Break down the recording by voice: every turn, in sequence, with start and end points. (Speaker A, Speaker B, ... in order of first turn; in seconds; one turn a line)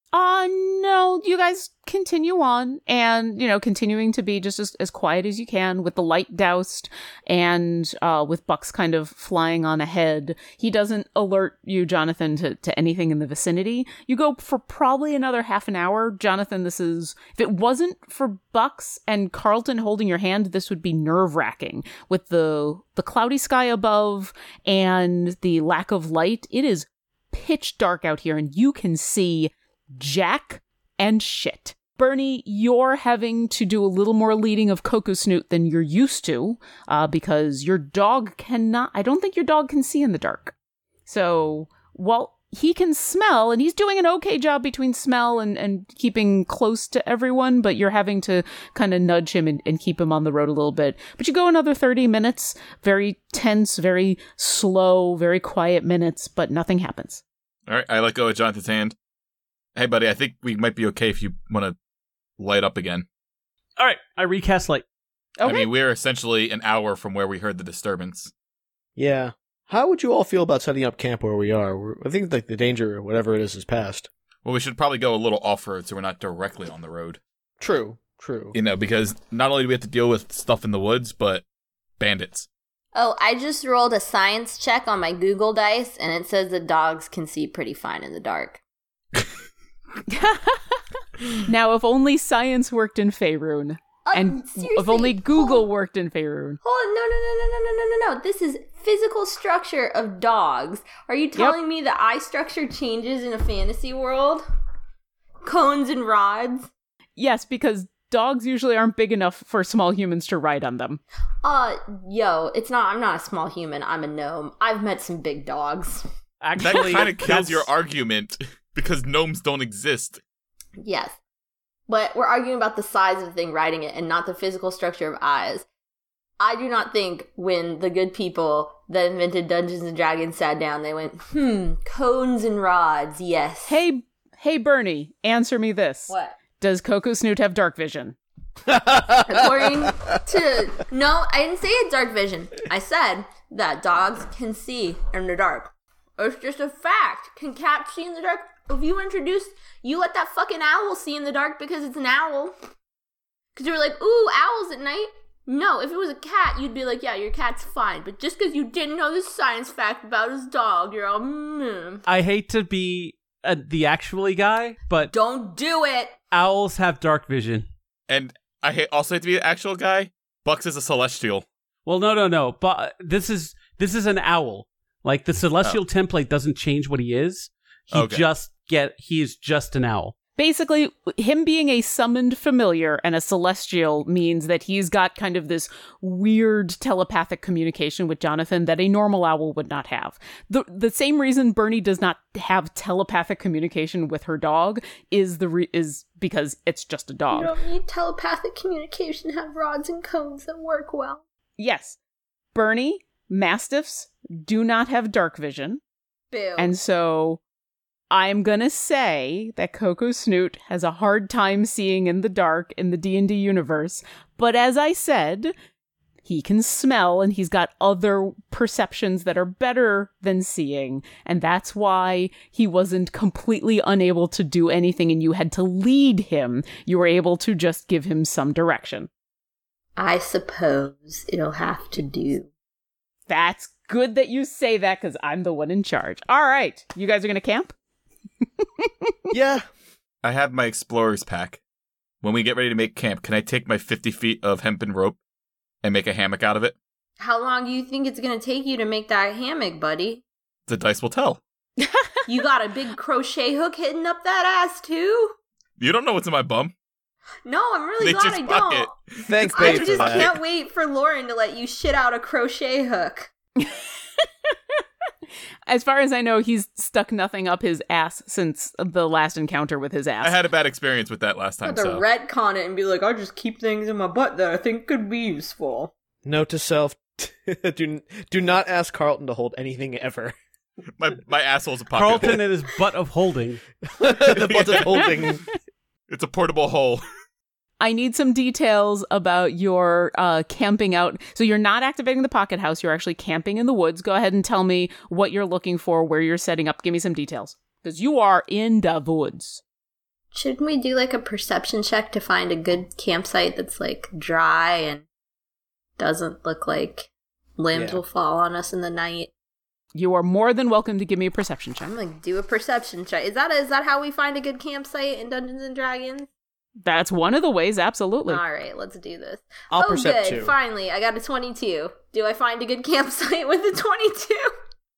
Speaker A: 0.1-40.5
Speaker A: 41.0-57.2
Speaker B: 57.7-58.9
Speaker B: 59.8-61.7
Speaker B: 62.4-63.0
Speaker C: 63.8-64.8
Speaker A: 65.4-65.7
Speaker B: 65.4-68.3
Speaker D: 69.0-74.1
Speaker B: 74.4-77.2
Speaker D: 77.6-78.5
Speaker B: 78.5-81.4
Speaker B: 82.0-82.5
Speaker E: 82.9-88.6
Speaker A: 90.1-90.8
Speaker A: 91.3-96.6
Speaker E: 94.0-95.6
Speaker E: 96.6-104.4
Speaker E: 105.4-106.7
Speaker A: 107.2-111.0
Speaker E: 111.4-116.0
Speaker C: 116.4-117.7
Speaker B: 116.6-120.2
Speaker E: 120.8-121.2
Speaker E: 121.9-125.6
Speaker E: 126.4-133.8
Speaker A: 133.7-138.2
Speaker E: 136.1-136.3
Speaker D: 138.7-139.6
Speaker E: 139.2-152.5
Speaker E: 153.6-162.0
Speaker C: 162.1-165.1
Speaker E: 165.0-166.2
Speaker C: 166.3-167.7
Speaker B: 168.1-171.4
Speaker C: 171.8-180.1
Speaker B: 177.9-178.2
Speaker A: 180.4-197.5
Speaker E: 197.3-201.2
Speaker A: 201.6-202.0
Speaker A: 202.5-205.8
Speaker E: 206.3-206.7
Speaker A: 206.6-207.4
Speaker A: 208.1-215.5
Speaker A: 216.2-229.1
Speaker E: 230.0-232.5
Speaker A: 233.3-237.7
Speaker A: 238.6-239.1
Speaker D: 239.3-239.7
Speaker B: 240.2-241.6
Speaker B: 242.2-245.2
Speaker B: 245.8-246.7
Speaker E: 247.2-250.2
Speaker B: 250.7-251.4
Speaker A: 251.8-252.2
Speaker E: 252.2-255.3
Speaker B: 255.8-256.7
Speaker E: 257.4-258.9
Speaker B: 258.0-260.4
Speaker D: 259.2-260.3
Speaker E: 259.5-263.3
Speaker A: 265.7-270.4
Speaker B: 270.2-272.0
Speaker E: 271.6-275.9
Speaker D: 276.2-280.3
Speaker B: 281.0-282.4
Speaker C: 281.9-283.6
Speaker D: 283.9-285.4
Speaker B: 284.3-285.0
Speaker B: 286.1-287.0
Speaker A: 287.8-299.6
Speaker E: 300.3-305.0
Speaker E: 306.0-309.3
Speaker D: 307.7-308.0
Speaker A: 309.9-311.9
Speaker E: 311.8-316.3
Speaker A: 316.8-318.4
Speaker E: 318.2-324.5
Speaker D: 319.7-320.5